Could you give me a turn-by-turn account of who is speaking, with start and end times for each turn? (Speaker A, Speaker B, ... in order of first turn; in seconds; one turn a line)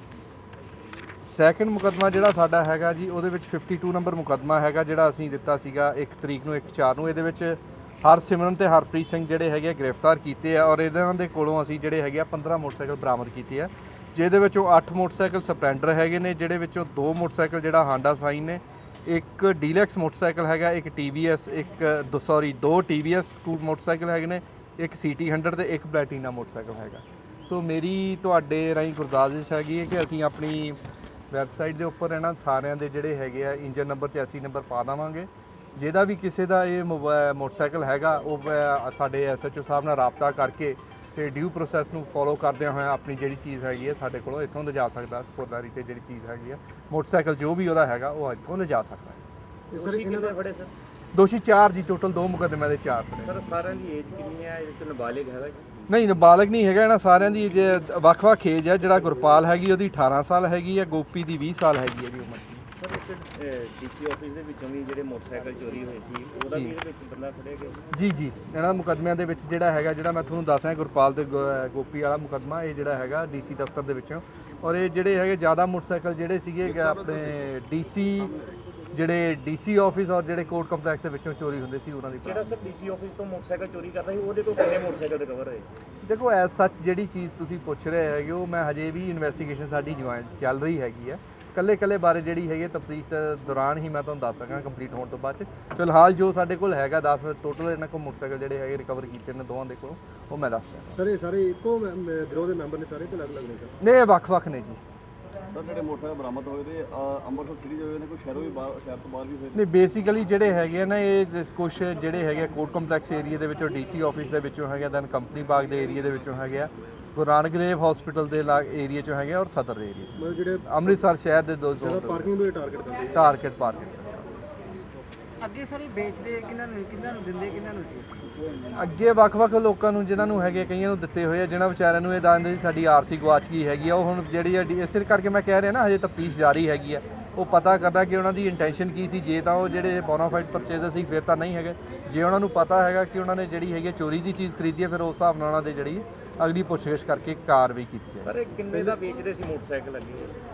Speaker A: 1.2-30.8
Speaker A: 31.3-49.2
Speaker B: 49.7-50.3
Speaker C: 49.7-50.7
Speaker A: 51.1-53.7
Speaker C: 53.2-55.9
Speaker A: 55.9-62.6
Speaker C: 62.7-67.8
Speaker A: 66.5-66.8
Speaker A: 67.9-78.3
Speaker D: 76.7-77.5
Speaker A: 78.9-82.5
Speaker C: 82.2-85.7
Speaker A: 86.0-101.0
Speaker B: 100.9-103.7
Speaker A: 103.8-104.8
Speaker D: 105.5-109.6
Speaker A: 109.5-122.3
Speaker B: 120.2-120.8
Speaker B: 121.8-123.2
Speaker A: 123.1-124.5
Speaker E: 125.4-128.1
Speaker A: 128.7-148.4
Speaker C: 148.2-150.3